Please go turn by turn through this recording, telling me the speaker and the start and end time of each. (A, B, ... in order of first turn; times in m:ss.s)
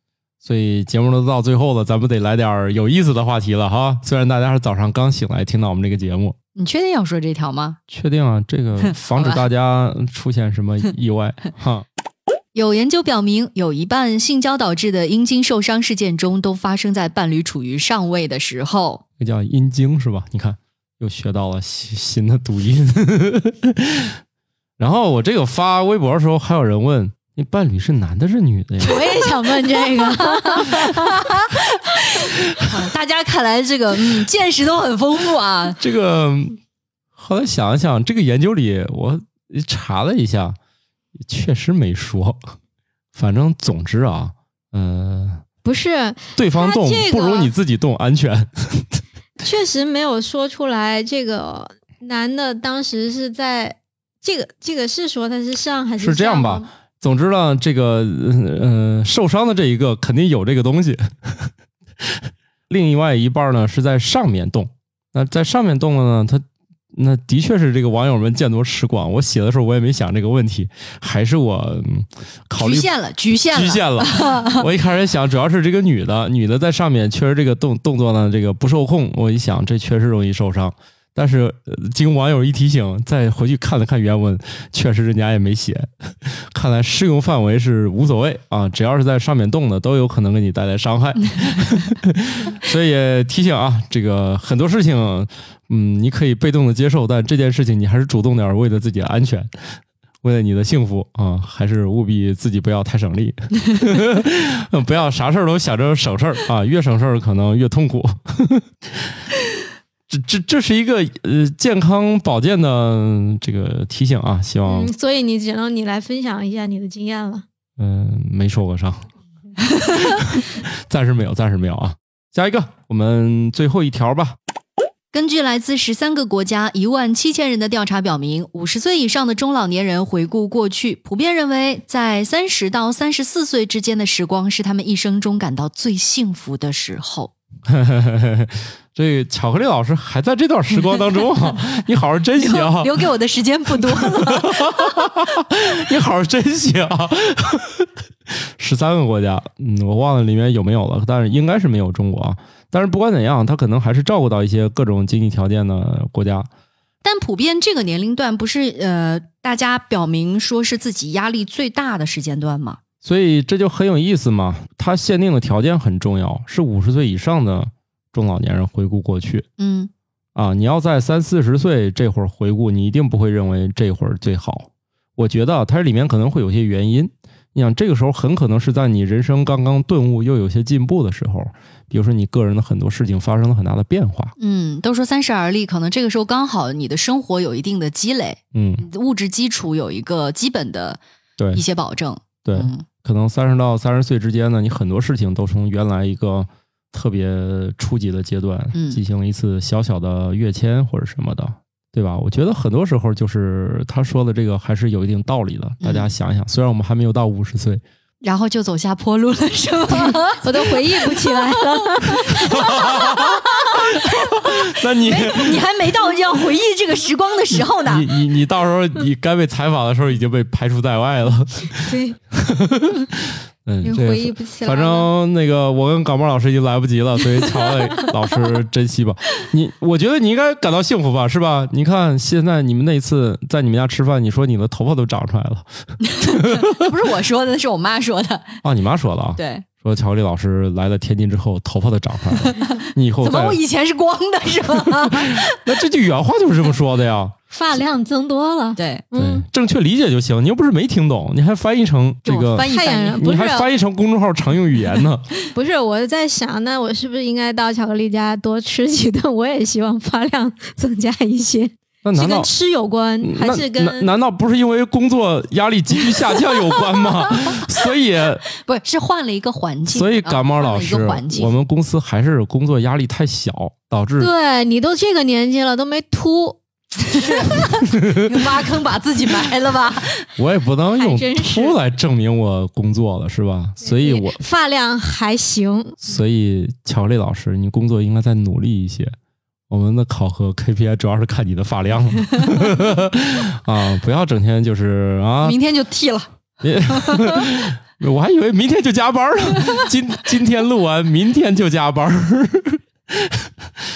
0:00.4-0:06.3 A
0:06.6-0:07.8 B
0:07.9-0:11.8 A
0:08.8-0:09.4 B
0:12.5-0:19.0 B
0:19.2-0:24.1 A
0:24.8-0:29.2 A
0:28.8-0:31.3 C
0:29.7-0:35.8 B
0:35.8-0:36.6 A
0:37.2-0:40.6 A
0:41.3-0:42.4 A
0:43.1-0:45.4 A
0:45.6-0:47.5 C
0:46.3-0:49.0 A
0:49.4-0:56.7 C
0:56.0-1:01.5 A
1:02.7-1:12.9 A
1:12.6-1:14.6 B
1:13.5-1:39.5 A
1:40.2-1:49.1 A
1:50.1-1:54.9 A
1:54.6-1:57.4 C
1:57.8-1:59.1 A
1:59.9-2:04.4 A
2:05.1-2:17.3 B
2:17.7-2:23.1 A
2:22.3-2:25.0 B
2:23.7-2:36.5 A
2:37.0-2:42.8 B
2:43.0-2:49.4 A
2:49.6-2:49.9 B
2:50.3-3:04.3 A
3:04.4-3:11.0 B
3:08.5-3:08.9 A
3:11.6-3:12.8 B
3:12.4-3:27.8 A
3:18.7-3:19.0 B
3:25.8-3:26.1 B
3:28.2-3:38.1 B
3:29.9-3:32.7 C
3:32.3-3:35.7 A
3:37.5-3:56.9 A
3:41.7-3:42.2 C
3:43.8-3:45.1 C
3:56.0-3:58.6 B
3:58.6-4:03.6 A
3:59.4-3:59.6 B
4:02.4-4:05.7 B
4:04.9-4:07.3 A
4:07.5-4:09.4 C
4:08.8-4:09.0 B
4:09.1-4:15.3 A
4:12.2-4:13.2 B
4:12.7-4:13.7 C
4:15.5-4:24.1 C
4:22.0-4:22.5 A
4:23.2-4:28.4 A
4:28.5-4:31.5 B
4:29.9-4:34.3 A
4:34.2-4:37.8 C
4:37.1-4:40.3 B
4:37.9-4:38.2 A
4:40.3-4:44.4 A
4:41.0-4:41.8 C
4:43.8-4:46.0 C
4:46.0-4:49.1 A
4:49.7-4:55.6 A
4:55.4-4:56.3 B
4:56.6-5:03.5 A
4:56.9-4:57.5 B